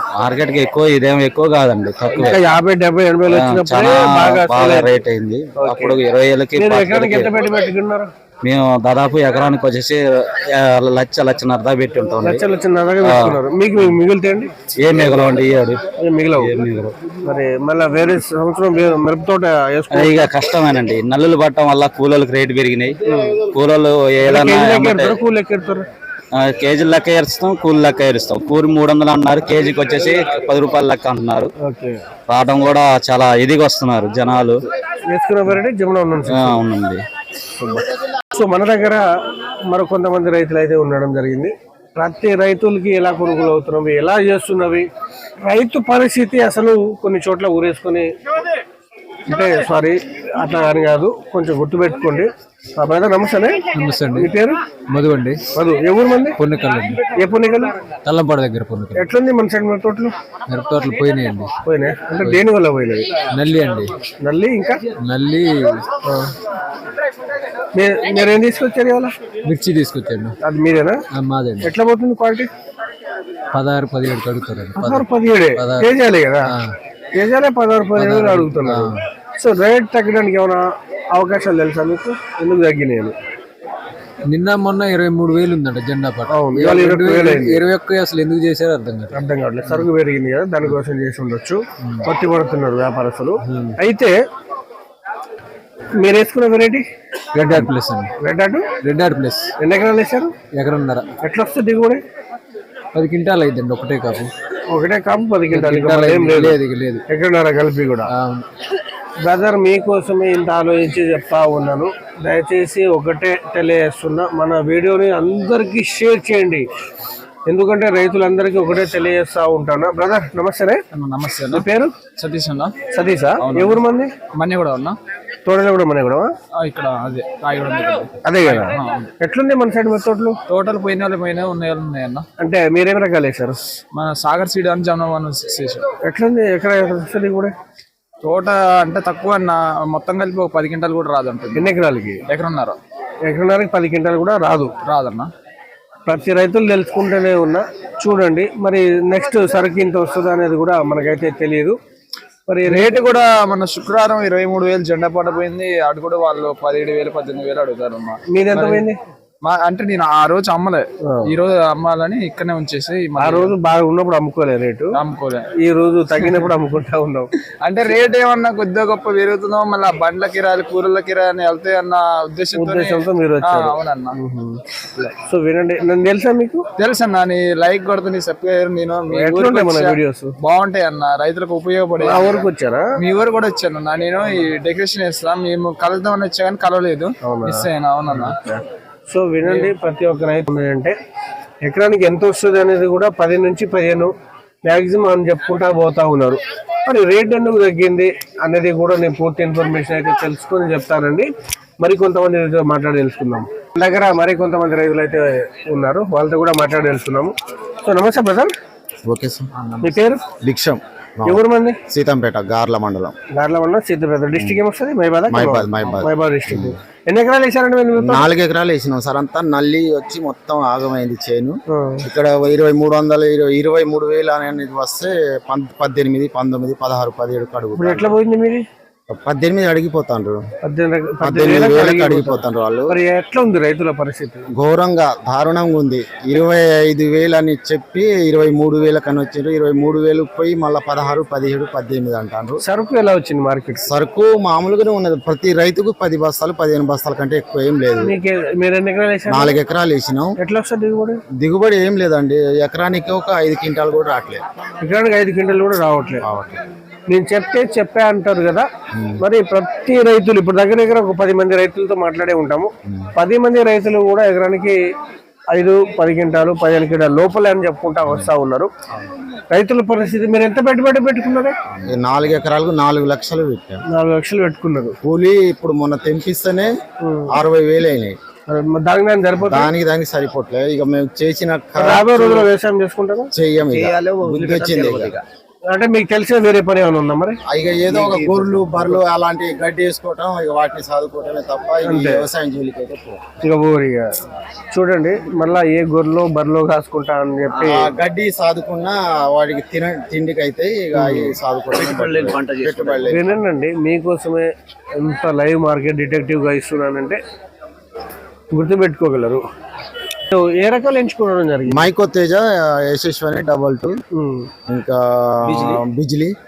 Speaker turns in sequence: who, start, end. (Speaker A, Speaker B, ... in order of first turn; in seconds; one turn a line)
Speaker A: 0.2-2.4
Speaker B: 2.1-4.9
Speaker A: 3.3-7.3
Speaker B: 5.6-6.0
Speaker B: 6.6-8.1
Speaker A: 8.4-12.4
Speaker B: 12.2-14.5
Speaker A: 13.0-13.4
Speaker A: 14.8-15.8
Speaker B: 16.0-16.5
Speaker A: 16.4-16.9
Speaker B: 17.2-20.3
Speaker A: 19.9-23.0
Speaker B: 23.1-23.4
Speaker A: 23.5-25.2
Speaker B: 24.2-25.9
Speaker A: 26.3-31.5
Speaker B: 31.6-32.0
Speaker A: 32.3-34.6
Speaker B: 35.1-36.6
Speaker A: 36.4-37.0
Speaker B: 37.6-39.1
Speaker B: 39.7-44.9
Speaker B: 45.4-48.1
Speaker B: 49.3-53.6
Speaker C: 53.7-54.3
Speaker B: 54.1-54.6
Speaker C: 54.9-55.4
Speaker B: 55.5-56.4
Speaker C: 56.4-57.0
Speaker B: 57.1-57.8
Speaker C: 58.0-59.1
Speaker B: 58.9-60.1
Speaker C: 60.5-61.5
Speaker B: 61.6-63.1
Speaker C: 63.3-63.9
Speaker B: 64.2-64.8
Speaker C: 65.0-65.8
Speaker B: 66.0-66.3
Speaker B: 67.7-69.2
Speaker C: 69.5-70.3
Speaker B: 70.4-71.0
Speaker C: 71.1-71.7
Speaker B: 71.6-72.5
Speaker C: 73.5-75.9
Speaker B: 74.8-76.5
Speaker B: 77.1-83.1
Speaker C: 78.0-79.0
Speaker C: 84.3-89.2
Speaker B: 86.3-87.7
Speaker B: 89.1-94.2
Speaker C: 93.5-93.7
Speaker B: 96.0-96.8
Speaker C: 97.4-98.1
Speaker B: 98.2-98.7
Speaker C: 98.8-99.5
Speaker B: 99.6-100.3
Speaker C: 100.5-101.1
Speaker B: 101.2-102.0
Speaker C: 103.0-104.3
Speaker B: 104.7-106.6
Speaker C: 105.5-107.0
Speaker B: 107.1-108.1
Speaker C: 108.1-108.5
Speaker B: 109.2-116.7
Speaker B: 117.5-120.8
Speaker D: 120.9-122.8
Speaker B: 121.5-122.0
Speaker B: 122.9-124.1
Speaker D: 123.4-123.8
Speaker D: 124.3-125.0
Speaker B: 125.5-126.3
Speaker D: 126.6-129.1
Speaker B: 128.2-130.3
Speaker D: 130.5-132.3
Speaker B: 132.4-133.6
Speaker D: 133.9-135.9
Speaker B: 136.1-137.5
Speaker D: 138.2-141.7
Speaker B: 141.6-142.2
Speaker D: 142.3-142.8
Speaker B: 143.3-144.7
Speaker D: 144.8-145.3
Speaker B: 146.1-151.8
Speaker B: 152.5-153.0
Speaker D: 152.7-158.9
Speaker B: 158.3-159.0
Speaker D: 159.4-163.6
Speaker B: 163.2-164.9
Speaker D: 164.9-165.5
Speaker B: 165.6-167.3
Speaker D: 167.6-174.2
Speaker B: 172.6-176.6
Speaker D: 176.8-182.4
Speaker B: 179.1-180.3
Speaker B: 182.0-182.9
Speaker D: 183.0-188.4
Speaker B: 187.2-191.0
Speaker D: 189.4-189.7
Speaker B: 191.6-194.1
Speaker B: 194.7-201.3
Speaker B: 201.8-208.5
Speaker E: 209.1-209.5
Speaker B: 209.8-210.2
Speaker E: 210.4-213.2
Speaker B: 211.2-211.8
Speaker B: 213.3-218.2
Speaker E: 214.4-214.6
Speaker E: 215.3-216.8
Speaker E: 218.0-228.2
Speaker B: 221.7-222.0
Speaker B: 227.8-228.6
Speaker E: 229.1-230.4
Speaker B: 230.6-234.4
Speaker E: 231.2-233.0
Speaker E: 234.6-242.6
Speaker B: 242.7-243.8
Speaker E: 243.8-248.1
Speaker B: 248.0-249.6
Speaker E: 249.3-250.4
Speaker B: 250.4-251.2
Speaker E: 251.4-254.4
Speaker B: 254.8-256.2
Speaker E: 256.2-256.6
Speaker B: 257.1-258.7
Speaker E: 258.9-259.2
Speaker B: 259.2-264.8
Speaker B: 265.5-268.7
Speaker B: 269.5-271.6
Speaker E: 271.9-273.8
Speaker B: 273.9-275.0
Speaker E: 275.0-276.8
Speaker B: 277.0-277.4
Speaker E: 277.3-278.2
Speaker B: 278.5-279.7
Speaker E: 279.4-282.5
Speaker B: 281.8-283.3
Speaker E: 283.3-285.2
Speaker C: 283.7-285.2
Speaker B: 285.7-287.4
Speaker E: 287.5-293.2
Speaker C: 288.1-288.9
Speaker B: 291.9-292.3
Speaker B: 293.4-294.1
Speaker B: 294.7-297.9
Speaker E: 297.6-303.3
Speaker B: 300.9-301.3
Speaker C: 301.8-303.1
Speaker B: 303.1-307.2
Speaker B: 308.5-309.4
Speaker B: 310.3-311.9
Speaker E: 311.7-314.0
Speaker B: 314.1-314.5
Speaker E: 314.7-316.3